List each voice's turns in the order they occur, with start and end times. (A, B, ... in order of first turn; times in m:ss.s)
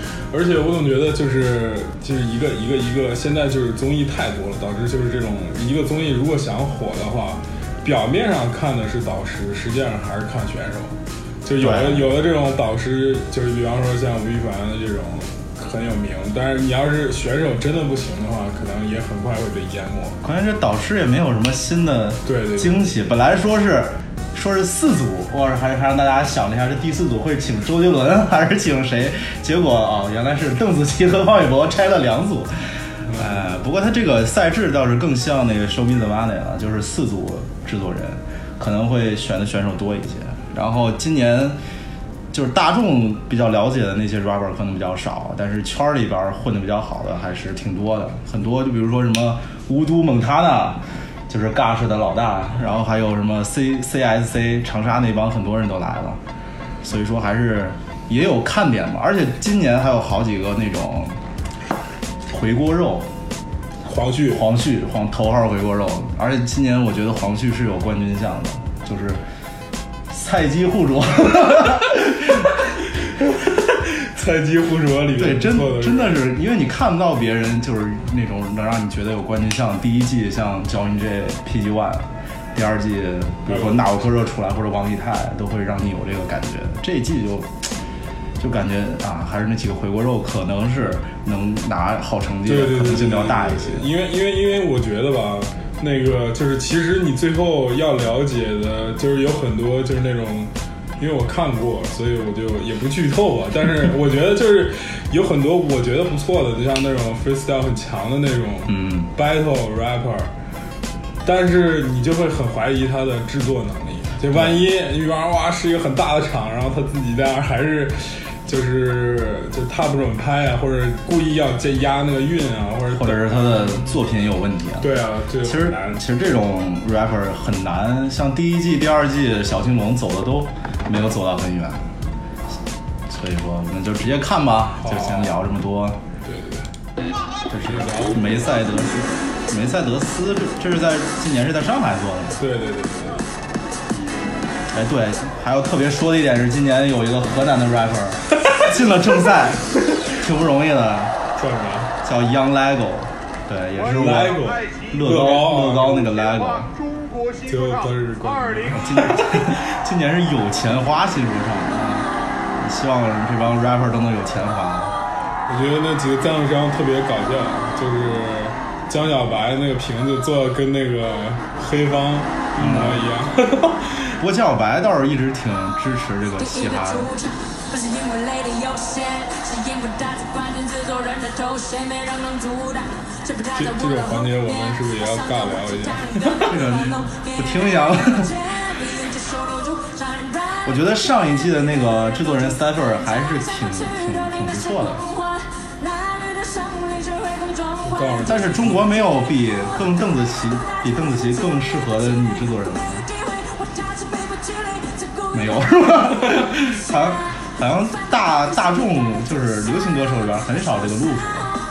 0:00.3-0:20.2 A
0:11.6-0:12.1 B
0:20.2-0:32.5 B
0:22.2-0:22.9 A
0:33.1-0:41.6 B
0:42.3-0:56.2 B
0:56.8-1:01.2 B
1:02.3-1:03.1 B
1:03.8-1:04.4 A
1:04.3-1:09.2 B
1:10.1-1:12.4 B
1:13.2-1:16.2 A
1:15.1-1:27.5 B
1:23.4-1:24.0 A
1:28.4-1:33.9 B
1:32.4-1:50.3 A
1:48.7-1:49.1 B
1:51.2-2:04.0 A
1:54.2-1:54.6 B
2:02.9-2:11.8 B
2:04.8-2:06.0 A
2:13.1-2:16.0 B
2:14.8-2:15.4 A
2:16.2-2:16.7 A
2:17.5-2:22.4 B
2:17.6-2:18.2 A
2:22.4-2:23.2 A
2:24.7-2:31.1 B
2:31.4-2:31.9 A
2:32.0-2:34.4 B
2:33.8-2:35.0 C
2:33.9-2:36.0 A
2:34.9-2:36.7 B
2:36.0-2:38.8 C
2:37.5-2:39.2 A
2:38.7-2:44.9 B
2:45.5-2:54.1 A
2:52.6-2:53.0 B
2:54.2-2:57.1 B
2:56.4-3:10.7 D
3:03.6-3:06.4 A
3:06.4-3:08.3 B
3:10.6-3:15.0 B
3:13.2-3:18.4 D
3:17.8-3:18.9 A
3:18.2-3:23.1 B
3:23.1-3:26.0 D
3:25.3-3:31.5 B